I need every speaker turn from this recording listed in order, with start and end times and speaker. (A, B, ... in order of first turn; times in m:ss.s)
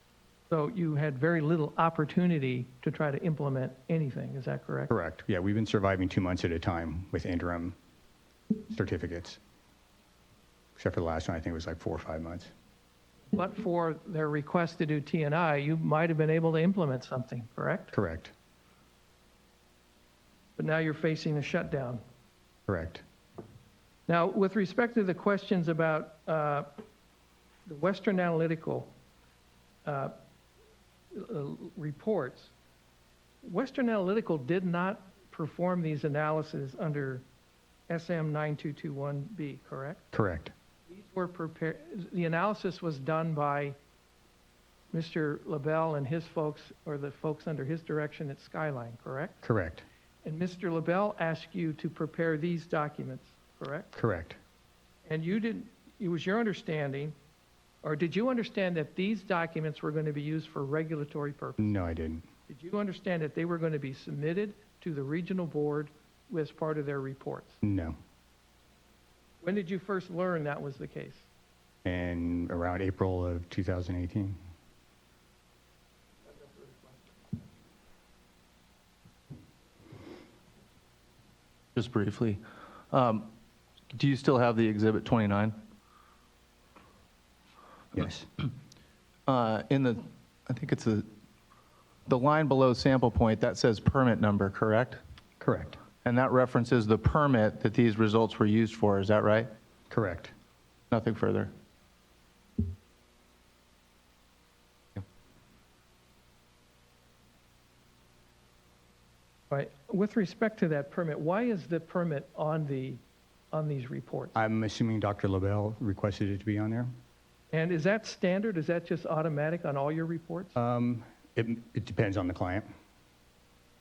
0:00.5-0:04.9 A
0:04.9-0:07.8 B
0:08.7-0:09.4 B
0:10.8-0:12.5 B
0:13.3-0:17.9 A
0:17.9-0:18.3 B
0:20.6-0:22.0 A
0:22.7-0:23.0 B
0:24.1-0:26.8 A
0:27.6-0:28.9 A
0:29.8-0:30.1 A
0:31.1-0:32.5 A
0:33.4-0:37.2 A
0:37.9-0:40.0 A
0:40.1-0:40.5 B
0:40.9-0:43.8 A
0:44.9-0:49.4 A
0:49.4-0:49.8 B
0:50.2-0:53.9 A
0:53.9-0:54.4 B
0:55.0-0:57.2 A
0:57.8-1:01.7 A
1:01.6-1:02.2 B
1:02.5-1:07.6 A
1:07.6-1:08.0 B
1:09.4-1:11.3 A
1:11.8-1:14.4 B
1:21.7-1:23.3 C
1:23.9-1:25.6 C
1:27.9-1:28.3 B
1:29.3-1:31.1 C
1:32.1-1:35.0 C
1:35.4-1:35.8 B
1:36.0-1:39.5 C
1:39.9-1:40.3 B
1:40.9-1:41.5 C
1:49.5-1:54.4 A
1:54.3-1:56.9 B
1:57.5-2:00.6 A
2:00.6-2:02.7 B